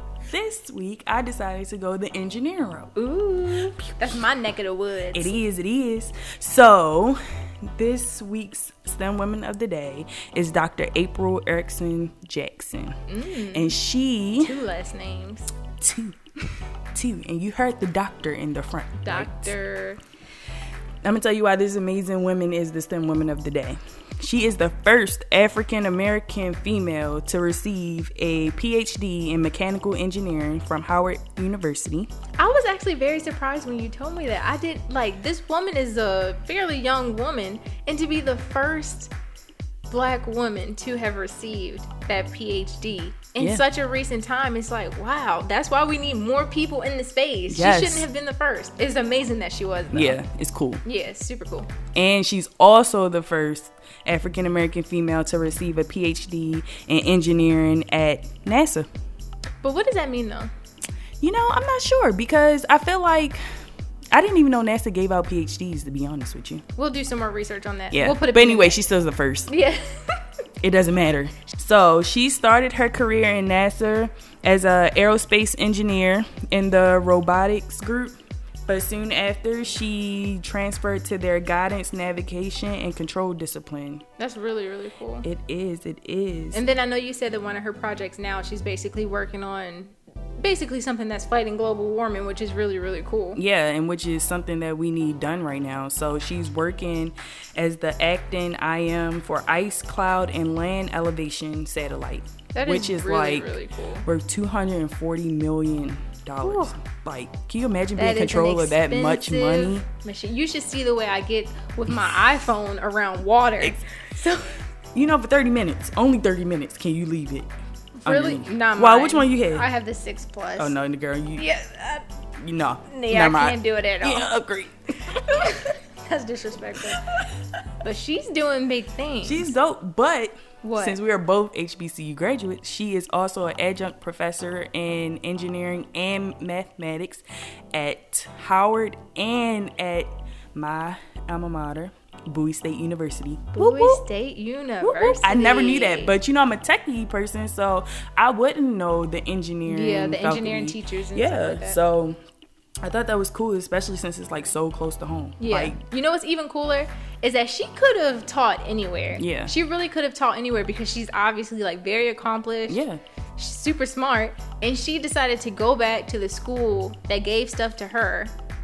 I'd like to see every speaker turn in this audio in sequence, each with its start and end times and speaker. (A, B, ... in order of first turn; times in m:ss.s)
0:00.2-0:02.9 A
0:03.0-0:05.4 B
0:05.1-0:13.0 A
0:13.1-0:13.7 B
0:13.5-0:14.6 A
0:14.4-0:15.5 B
0:15.8-0:19.5 A
0:19.0-0:20.0 B
0:21.0-0:32.1 A
0:32.4-0:39.1 B
0:39.9-0:50.2 B
0:47.5-0:48.1 A
0:49.9-0:50.8 A
0:50.8-0:51.7 B
0:51.9-0:58.9 A
0:59.6-1:00.5 B
1:01.2-1:03.4 A
1:04.1-1:06.6 A
1:06.8-1:08.8 B
1:07.9-1:09.5 A
1:09.5-1:10.2 B
1:10.6-1:24.0 A
1:24.2-1:25.2 B
1:25.2-1:26.6 A
1:26.5-1:33.4 B
1:33.4-1:49.8 A
1:42.5-1:44.0 B
1:46.4-1:46.7 B
1:48.0-1:54.5 B
1:54.9-1:57.5 A
1:58.0-2:00.7 B
1:58.0-1:59.6 A
2:00.6-2:01.4 A
2:01.4-2:02.0 B
2:02.4-2:05.6 A
2:02.9-2:04.3 B
2:05.2-2:07.1 B
2:07.8-2:09.5 B
2:09.2-2:24.0 A
2:10.6-2:11.0 B
2:23.5-2:26.2 B
2:24.8-2:32.2 A
2:29.6-2:31.8 B
2:32.8-2:35.8 A
2:35.4-2:42.8 B
2:39.2-2:39.5 A
2:42.7-2:43.0 A
2:43.4-2:48.3 B